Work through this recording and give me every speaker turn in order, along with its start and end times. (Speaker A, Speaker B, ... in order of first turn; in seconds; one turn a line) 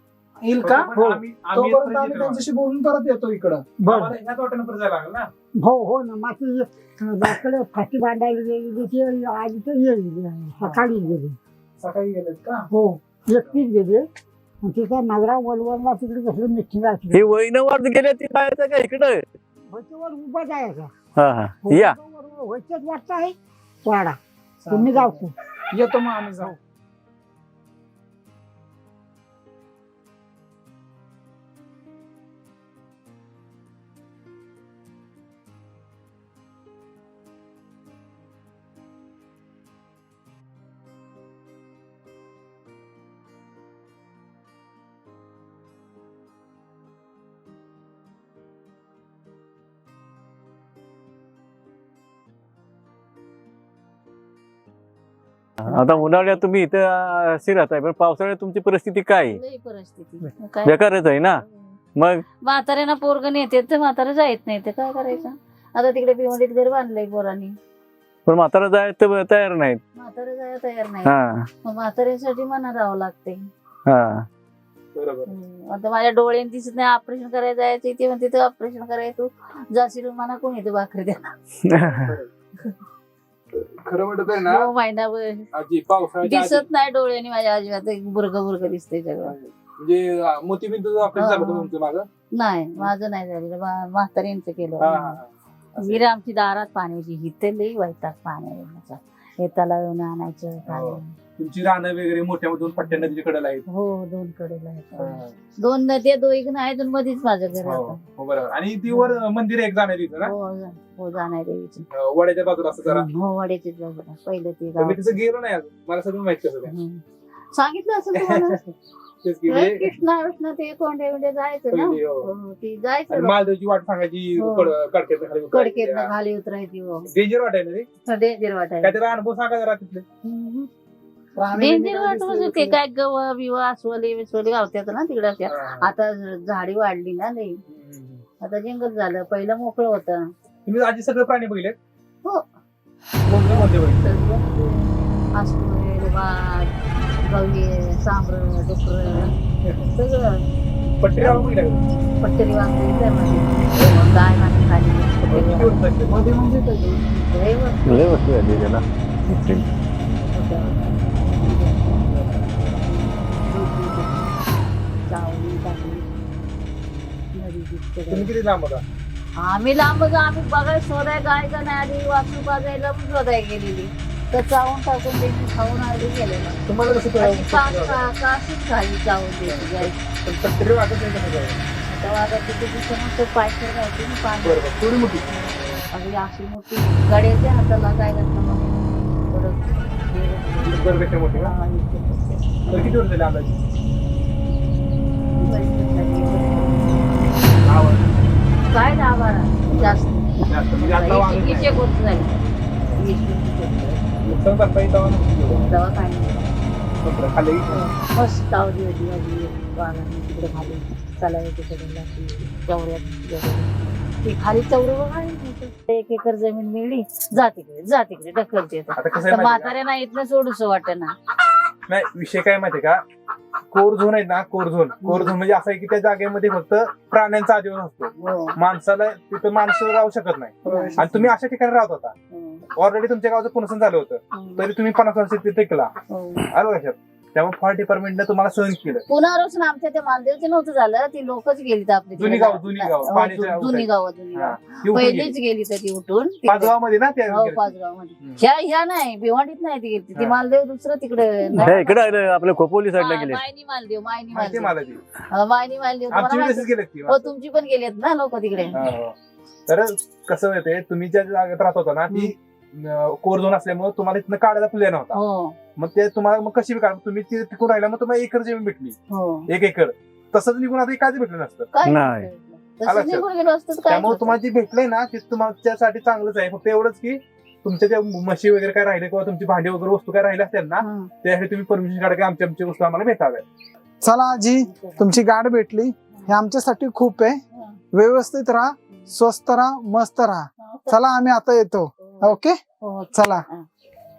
Speaker A: 0.4-3.6
Speaker B: 0.6-2.4
Speaker C: 3.8-4.1
Speaker B: 3.9-5.3
Speaker C: 5.6-11.4
Speaker A: 11.8-12.7
Speaker C: 12.7-14.0
Speaker C: 14.6-17.3
Speaker D: 17.1-19.2
Speaker C: 19.7-20.9
Speaker D: 21.1-21.9
Speaker C: 21.6-25.3
Speaker A: 24.6-26.5
Speaker D: 55.6-59.4
Speaker E: 55.6-56.4
Speaker E: 59.3-61.8
Speaker D: 60.6-61.4
Speaker D: 62.0-62.2
Speaker E: 62.4-67.5
Speaker D: 68.3-69.8
Speaker E: 70.0-71.1
Speaker D: 71.0-71.5
Speaker E: 71.6-73.5
Speaker D: 73.9-74.2
Speaker B: 74.9-75.3
Speaker E: 75.3-81.3
Speaker D: 81.6-82.1
Speaker B: 81.8-82.3
Speaker B: 83.5-84.7
Speaker E: 84.4-85.5
Speaker B: 85.5-86.7
Speaker E: 86.2-89.3
Speaker B: 89.2-92.1
Speaker E: 91.1-91.7
Speaker E: 92.3-95.2
Speaker B: 94.8-96.0
Speaker E: 95.8-101.1
Speaker B: 100.7-103.6
Speaker E: 103.7-108.0
Speaker B: 105.0-105.3
Speaker B: 107.5-110.3
Speaker E: 108.9-109.2
Speaker E: 110.2-111.8
Speaker B: 111.9-113.1
Speaker E: 112.8-115.2
Speaker B: 114.8-116.7
Speaker E: 116.7-117.0
Speaker E: 117.5-118.6
Speaker B: 118.2-118.6
Speaker B: 119.2-119.9
Speaker E: 119.5-123.4
Speaker B: 121.7-122.3
Speaker B: 123.1-126.1
Speaker E: 124.4-124.7
Speaker E: 125.5-127.1
Speaker B: 127.1-127.9
Speaker E: 128.0-128.9
Speaker B: 128.8-130.0
Speaker E: 130.2-130.7
Speaker A: 131.3-132.8
Speaker E: 131.5-137.6
Speaker B: 135.5-135.9
Speaker B: 137.7-138.2
Speaker E: 138.4-140.3
Speaker B: 140.7-141.7
Speaker B: 143.2-144.1
Speaker E: 143.3-150.4
Speaker B: 151.0-151.8
Speaker A: 151.2-151.4
Speaker E: 152.2-155.8
Speaker B: 155.2-156.2
Speaker A: 156.1-156.9
Speaker E: 156.8-158.2
Speaker D: 157.8-159.7
Speaker E: 160.2-164.3
Speaker E: 165.1-166.1
Speaker E: 167.3-168.3
Speaker B: 168.1-168.8
Speaker E: 169.4-179.9
Speaker B: 176.7-178.1
Speaker B: 179.4-181.6
Speaker E: 181.8-193.0
Speaker B: 184.4-185.2
Speaker B: 190.6-191.5
Speaker B: 192.7-193.6
Speaker E: 195.3-197.5
Speaker B: 197.6-198.1
Speaker E: 198.7-202.4
Speaker B: 199.7-201.9
Speaker E: 202.9-204.1
Speaker B: 204.2-205.8
Speaker E: 205.6-206.5
Speaker B: 207.0-207.8
Speaker E: 207.7-213.7
Speaker E: 214.2-221.1
Speaker B: 218.9-219.7
Speaker B: 221.9-223.0
Speaker B: 223.7-232.1
Speaker E: 225.0-225.3
Speaker E: 228.2-228.5
Speaker E: 230.6-231.3
Speaker A: 230.7-231.0
Speaker E: 232.3-232.6
Speaker B: 232.8-235.9
Speaker E: 234.3-234.7
Speaker E: 236.1-236.5
Speaker B: 236.5-239.0
Speaker E: 239.1-246.7
Speaker B: 242.2-245.3
Speaker B: 246.4-247.7
Speaker E: 247.3-252.1
Speaker D: 251.6-253.4
Speaker E: 252.9-254.7
Speaker B: 254.3-255.0
Speaker E: 255.3-258.8
Speaker B: 256.1-257.3
Speaker B: 258.7-259.1
Speaker B: 259.7-265.2
Speaker E: 265.1-265.6
Speaker B: 265.8-269.0
Speaker E: 269.1-269.5
Speaker B: 269.5-271.7
Speaker E: 271.7-274.4
Speaker D: 271.8-272.3
Speaker B: 272.9-273.2
Speaker B: 273.9-283.4
Speaker E: 280.8-281.1
Speaker A: 284.0-287.4
Speaker E: 284.7-285.0
Speaker A: 287.9-292.6
Speaker E: 290.6-290.9
Speaker E: 292.8-293.7
Speaker A: 293.1-293.4